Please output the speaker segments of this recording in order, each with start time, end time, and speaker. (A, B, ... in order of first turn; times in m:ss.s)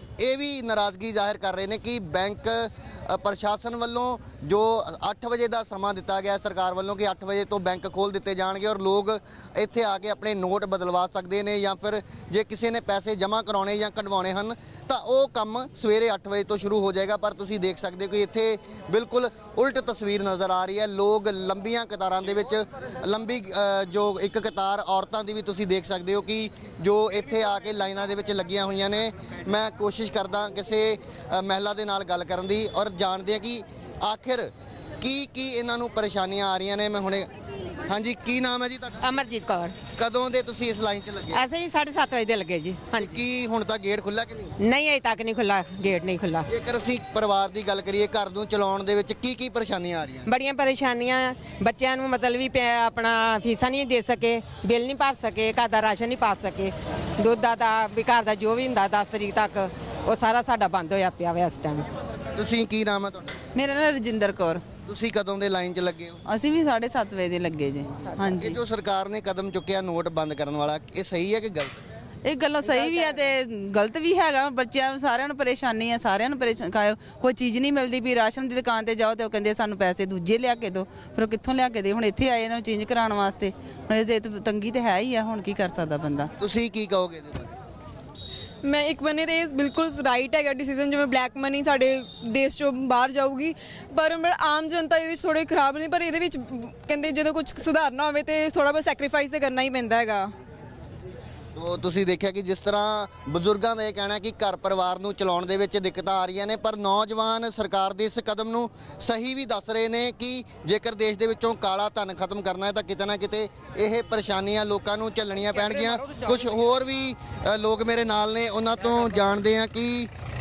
0:00.2-0:37.3 A
0:37.8-0:39.1 A
0:39.0-0:39.7 B
0:40.0-0:41.4 A
0:41.3-0:43.2 B
0:43.0-0:44.5 A
0:44.6-0:46.4 B
0:46.5-0:50.3 A
0:50.2-1:01.8 B
1:02.4-1:03.4 A
1:03.6-1:04.6 C
1:04.9-1:06.2 A
1:06.3-1:08.4 C
1:08.4-1:11.8 A
1:12.2-1:26.3 C
1:12.6-1:13.2 B
1:26.4-1:27.5 A
1:28.6-1:40.2 D
1:41.5-2:00.1 A